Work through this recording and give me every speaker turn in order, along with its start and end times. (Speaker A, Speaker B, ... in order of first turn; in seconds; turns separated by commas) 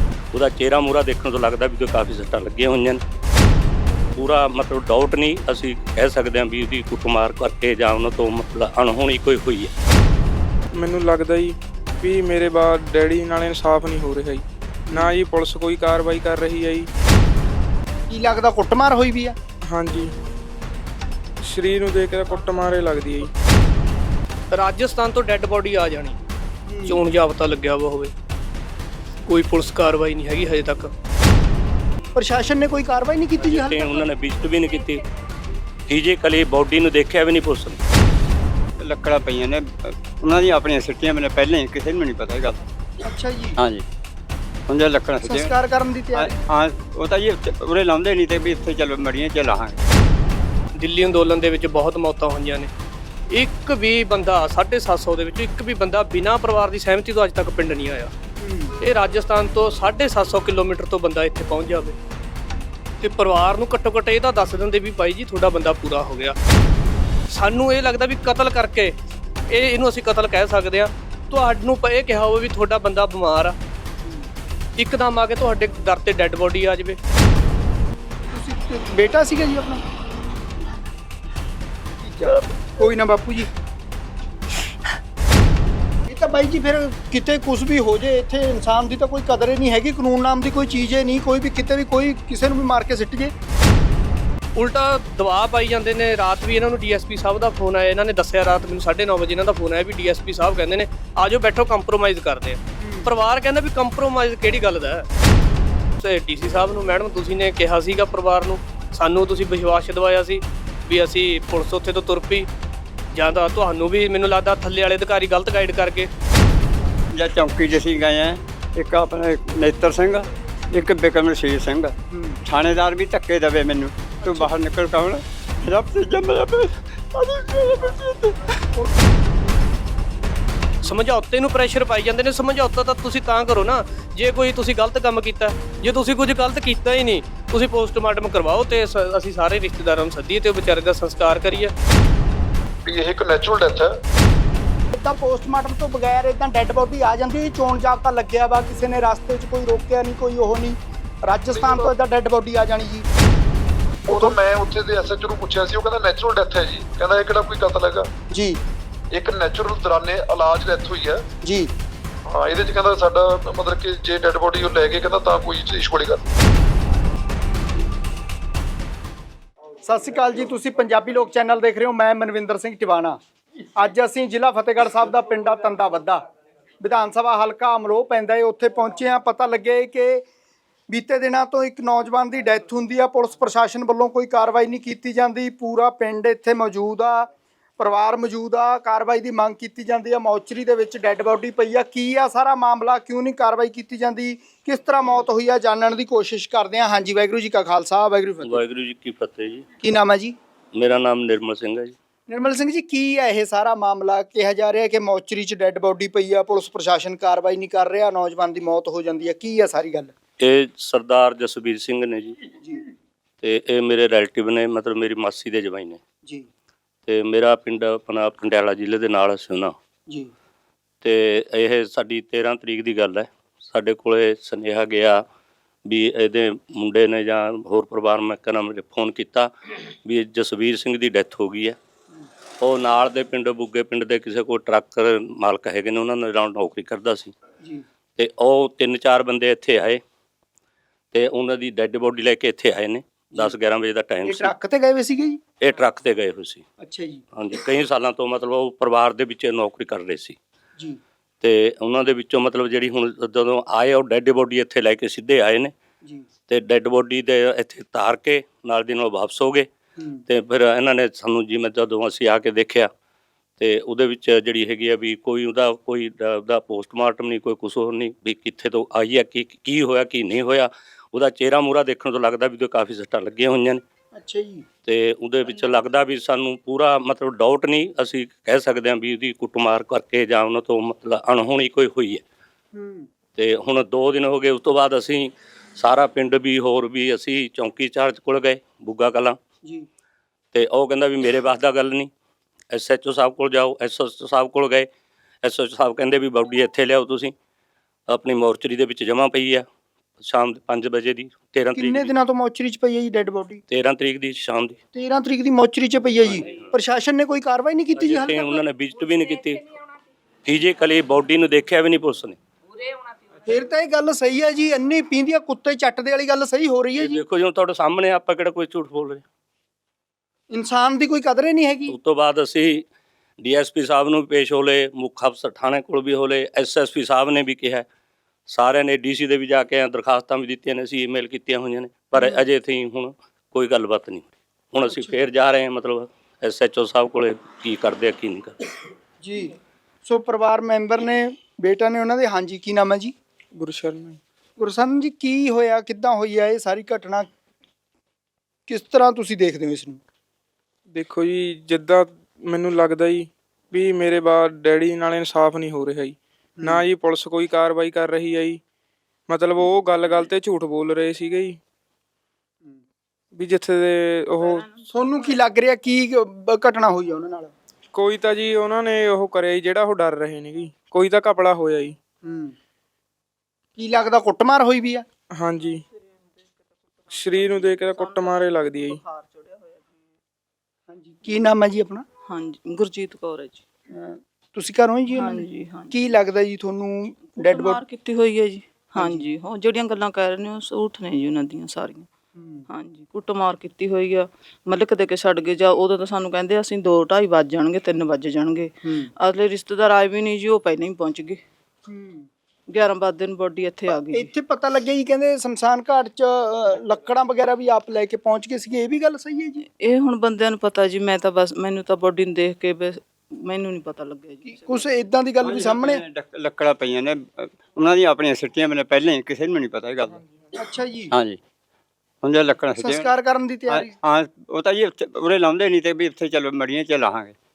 Speaker A: 0.3-3.0, Speaker A: 4.2-9.7, Speaker B: 10.8-16.9, Speaker C: 18.1-19.4, Speaker B: 19.6-20.1, Speaker B: 21.4-23.3, Speaker D: 24.5-26.1, Speaker C: 26.7-27.0, Speaker D: 26.9-28.1, Speaker D: 29.3-30.9, Speaker C: 32.1-34.1, Speaker A: 33.4-35.0, Speaker A: 35.9-37.8, Speaker E: 38.8-42.6, Speaker C: 43.0-43.6, Speaker E: 43.6-43.8, Speaker E: 44.7-45.5, Speaker C: 45.2-46.3, Speaker E: 46.1-49.8, Speaker D: 50.8-52.7, Speaker D: 53.3-58.1, Speaker C: 58.4-58.8, Speaker D: 58.8-62.0, Speaker D: 63.0-66.3, Speaker D: 67.3-68.9, Speaker D: 69.5-73.5, Speaker C: 74.0-74.3, Speaker D: 74.8-77.0, Speaker C: 78.3-79.8, Speaker C: 82.0-83.5, Speaker C: 86.1-93.3, Speaker D: 94.5-105.1, Speaker C: 102.8-103.1, Speaker D: 106.0-112.5, Speaker D: 113.1-116.1, Speaker E: 117.1-121.9, Speaker C: 122.1-122.4, Speaker E: 122.5-128.5, Speaker C: 124.2-124.5, Speaker C: 128.8-129.0, Speaker D: 130.8-141.7, Speaker F: 142.8-144.0, Speaker C: 144.9-153.1, Speaker F: 151.5-151.9, Speaker F: 154.1-158.1, Speaker C: 154.1-154.3, Speaker C: 158.3-158.6, Speaker F: 159.1-161.2, Speaker C: 161.4-161.7, Speaker F: 162.2-166.2, Speaker C: 169.8-173.2, Speaker C: 173.8-176.2, Speaker C: 176.8-180.2, Speaker C: 180.9-198.6, Speaker A: 198.4-199.7, Speaker C: 199.8-200.3, Speaker A: 200.7-201.9, Speaker C: 202.3-210.1, Speaker A: 210.4-212.4, Speaker A: 213.4-216.0, Speaker A: 217.1-219.7, Speaker A: 221.0-225.2, Speaker A: 225.8-229.5, Speaker A: 230.0-231.8, Speaker A: 232.6-237.3, Speaker A: 238.2-240.0, Speaker A: 241.1-244.5, Speaker C: 244.2-245.4, Speaker A: 245.6-246.6, Speaker C: 246.8-247.2, Speaker A: 247.3-250.4, Speaker A: 251.4-255.7, Speaker A: 256.5-259.7, Speaker C: 260.0-260.2, Speaker A: 260.3-262.9, Speaker A: 263.6-273.8, Speaker C: 274.1-274.6, Speaker A: 274.9-282.2, Speaker C: 282.7-283.1, Speaker A: 283.4-289.4, Speaker A: 290.5-292.1, Speaker A: 292.7-294.9, Speaker A: 295.4-297.3, Speaker A: 298.1-299.6, Speaker A: 300.2-302.1, Speaker C: 301.7-303.6, Speaker A: 303.7-304.8, Speaker C: 304.9-308.6, Speaker A: 307.9-309.7, Speaker A: 310.4-312.4, Speaker C: 313.4-317.2, Speaker A: 317.0-319.2, Speaker C: 320.5-321.9, Speaker A: 321.9-322.8, Speaker A: 323.4-327.9, Speaker A: 328.5-338.6, Speaker C: 339.2-343.1, Speaker B: 343.6-344.2, Speaker C: 344.6-347.3, Speaker C: 348.7-350.0, Speaker B: 350.9-358.6, Speaker B: 359.3-361.6, Speaker B: 363.3-364.7, Speaker G: 364.4-365.1, Speaker C: 364.9-367.5, Speaker B: 367.9-372.0, Speaker C: 372.2-372.5, Speaker C: 373.8-375.1, Speaker B: 375.3-375.8, Speaker B: 377.1-379.0, Speaker G: 377.4-379.9, Speaker C: 380.9-382.0, Speaker G: 382.3-383.6, Speaker C: 383.9-387.8, Speaker G: 385.1-385.9, Speaker G: 387.2-392.1, Speaker C: 388.9-389.2, Speaker C: 392.4-392.6, Speaker G: 392.7-401.4, Speaker C: 398.8-399.1, Speaker C: 401.9-402.3, Speaker G: 402.7-404.3, Speaker C: 404.1-409.6, Speaker G: 409.8-414.7, Speaker C: 414.4-416.0, Speaker E: 415.4-420.2, Speaker C: 420.5-421.1, Speaker E: 421.1-421.4, Speaker E: 422.2-423.1, Speaker C: 422.8-423.9, Speaker E: 423.7-427.3